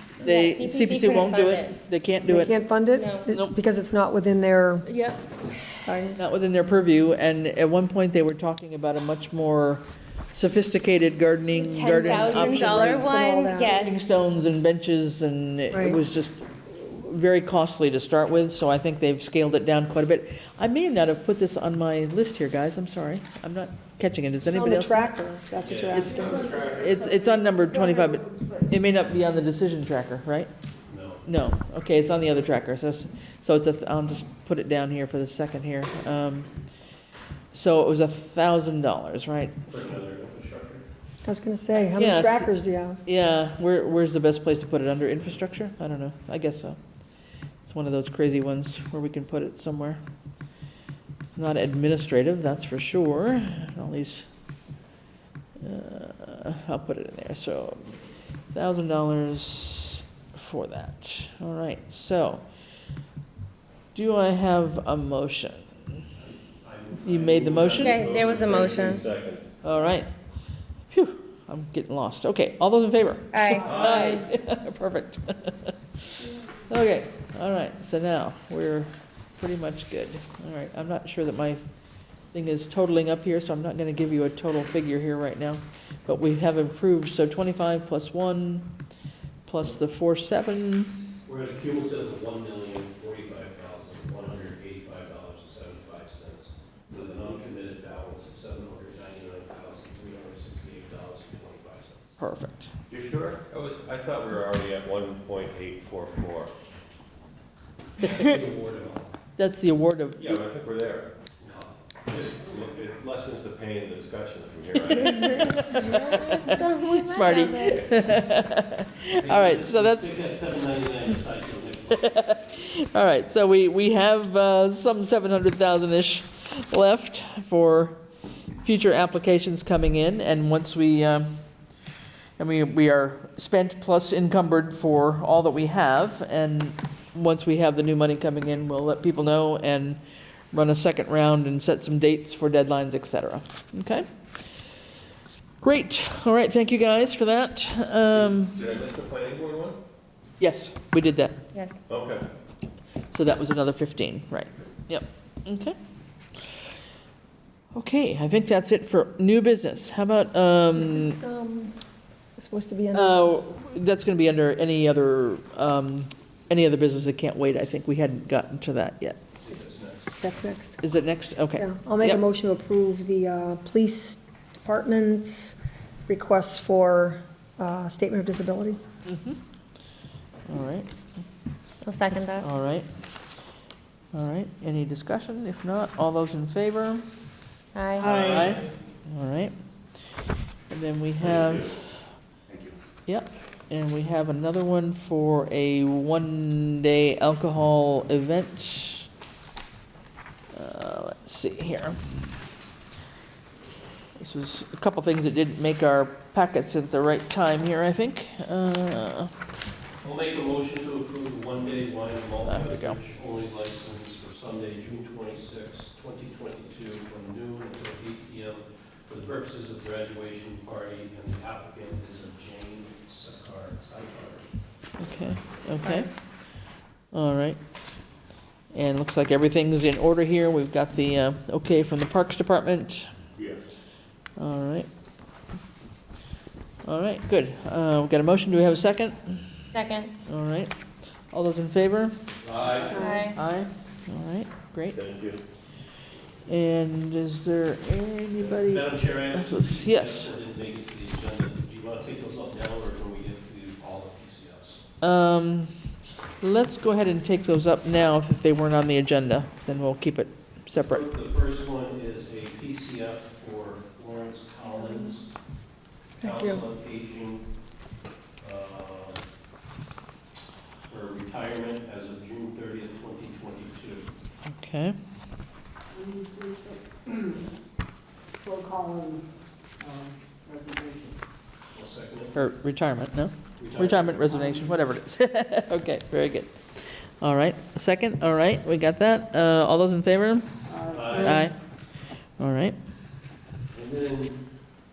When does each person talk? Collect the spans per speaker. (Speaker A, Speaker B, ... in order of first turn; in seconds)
Speaker A: 0.2-2.6, 3.3-3.5, 6.2-9.8, 10.3-25.1, 25.9-30.5, 31.2-36.5, 37.5-39.7, 41.9-42.5, 43.0-46.8, 47.6-50.0, 51.2-54.3, 55.6-58.0, 58.5-62.4, 63.9-65.7, 67.0-68.2, 69.6-70.1, 70.9-81.6, 82.3-88.7, 89.5-90.9, 102.2-102.7, 109.4-110.4, 114.9-120.1, 121.9-128.0, 128.6-131.3, 132.4-140.0, 140.5-144.1, 145.6-148.6, 150.4-151.3, 153.1-155.8, 157.7-161.2, 162.9-169.2, 170.8-172.2, 179.1-179.4, 180.5-180.9, 182.4-182.9, 184.1-187.0, 188.0-189.5, 190.7-191.8, 193.1-199.1, 200.5-202.2, 204.2-209.3, 212.5-213.0, 225.0-226.1, 227.1-227.6, 228.7-233.1, 234.4-234.9, 236.8-239.7, 240.3-240.7, 241.3-242.1, 243.0-245.0, 246.4-250.3, 255.0-255.7, 256.4-261.0, 274.5-275.0, 282.3-290.5, 291.1-291.5, 292.4-292.8
Speaker B: 0.2-1.7, 2.9-3.3, 4.9-5.8, 11.6-14.0, 67.7-69.0, 73.3-74.3, 115.7-118.0, 181.8-182.4, 187.7-188.2, 239.7-240.1, 242.9-243.4
Speaker C: 2.3-4.9, 5.8-6.2, 11.7-13.8, 15.7-16.0, 24.4-26.7, 41.2-43.0, 160.7-161.7, 162.3-163.3, 170.2-170.8, 171.6-178.8, 188.0-188.5, 242.9-243.3, 266.2-266.6
Speaker D: 25.6-26.1, 30.9-31.2, 39.7-40.8, 66.2-68.8, 91.2-102.0, 108.0-109.1, 111.4-113.2, 119.2-122.3, 148.7-149.8, 169.4-170.2, 188.0-188.7, 210.0-225.9, 242.4-243.1, 248.4-254.8, 260.8-265.3, 266.2-267.4, 268.4-269.2, 270.9-274.1, 281.7-282.4, 283.6-284.4, 290.9-291.4, 293.7-294.4
Speaker E: 26.1-28.8, 275.9-277.4, 278.4-281.2, 284.3-284.8, 290.6-291.4
Speaker F: 26.3-26.8, 68.0-69.4, 73.7-74.1, 102.9-106.5, 110.2-111.1, 112.7-115.7, 148.1-149.5, 151.9-152.2, 191.2-191.7, 233.4-233.7, 244.9-245.4